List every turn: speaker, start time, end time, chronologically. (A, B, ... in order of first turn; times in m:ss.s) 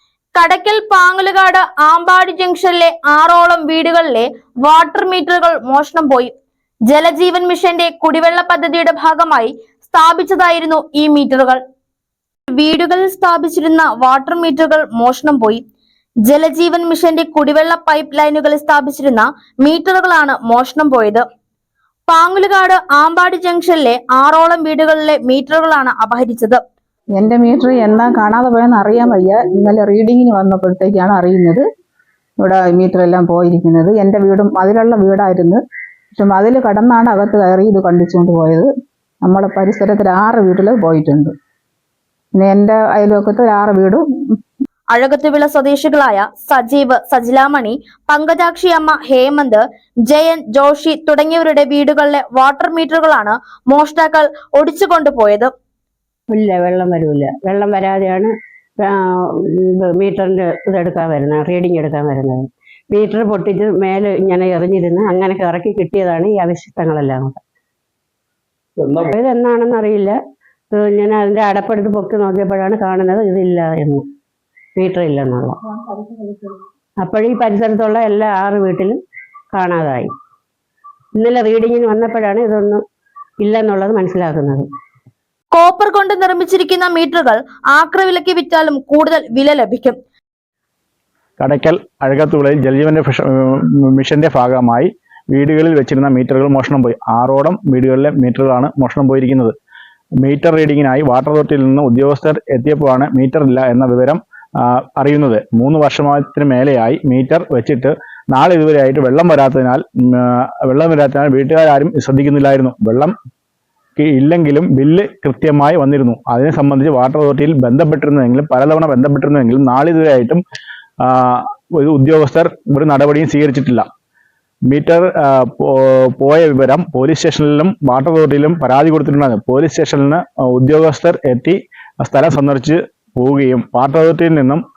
0:00.4-0:06.3 A
0:06.9-0:11.6 A
0:12.5-0:15.6 A
0:16.2-0:21.2 A
0:22.1-0:26.6 A
0:27.2-0:31.6 B
0:32.4-0:35.6 B
0:36.2-0:38.7 B
0:39.2-0:41.3 B
0:42.4-0:44.0 B
0:44.9-0:55.5 A
0:56.3-1:07.4 C
1:08.9-1:10.2 C
1:10.7-1:14.0 C
1:14.8-1:15.6 C
1:16.1-1:16.3 B
1:17.0-1:19.0 C
1:19.5-1:20.1 C
1:21.2-1:22.8 C
1:23.4-1:24.7 C
1:25.5-1:30.0 A
1:31.4-1:39.5 D
1:40.2-1:53.2 D
1:54.0-2:00.4 D
2:01.0-2:03.9 D
2:04.7-2:14.6 D